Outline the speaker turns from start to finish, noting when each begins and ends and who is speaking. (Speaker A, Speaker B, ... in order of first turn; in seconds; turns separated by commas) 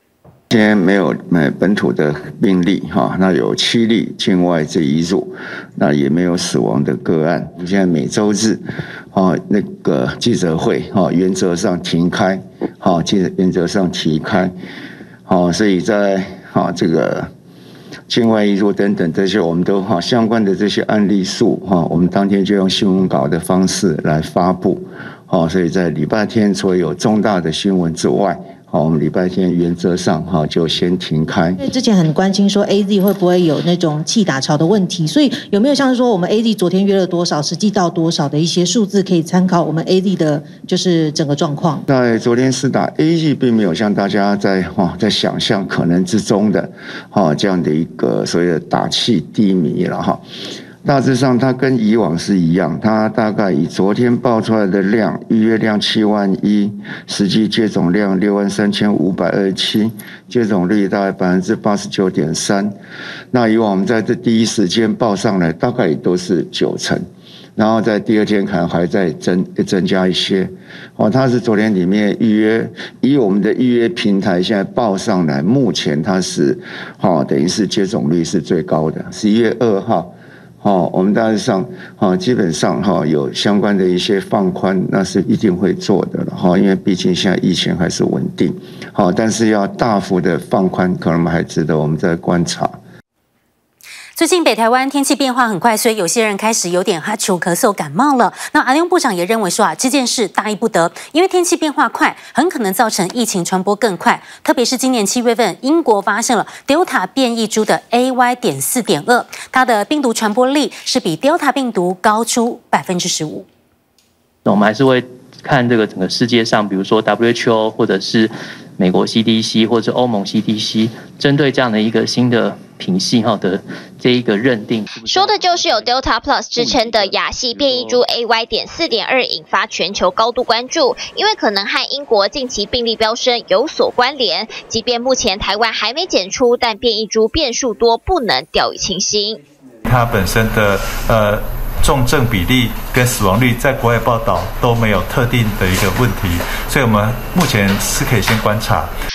Speaker A: 0.5-8.6, Speaker A: 9.1-14.5, Speaker A: 15.3-17.3, Speaker A: 18.1-31.6, Speaker B: 31.6-41.8, Speaker A: 41.9-50.2, Speaker A: 50.8-62.7, Speaker A: 63.3-67.0, Speaker A: 67.6-80.1, Speaker A: 80.6-92.8, Speaker C: 94.2-113.5, Speaker D: 114.5-125.9, Speaker E: 125.0-139.4, Speaker D: 126.5-128.0, Speaker F: 139.8-148.9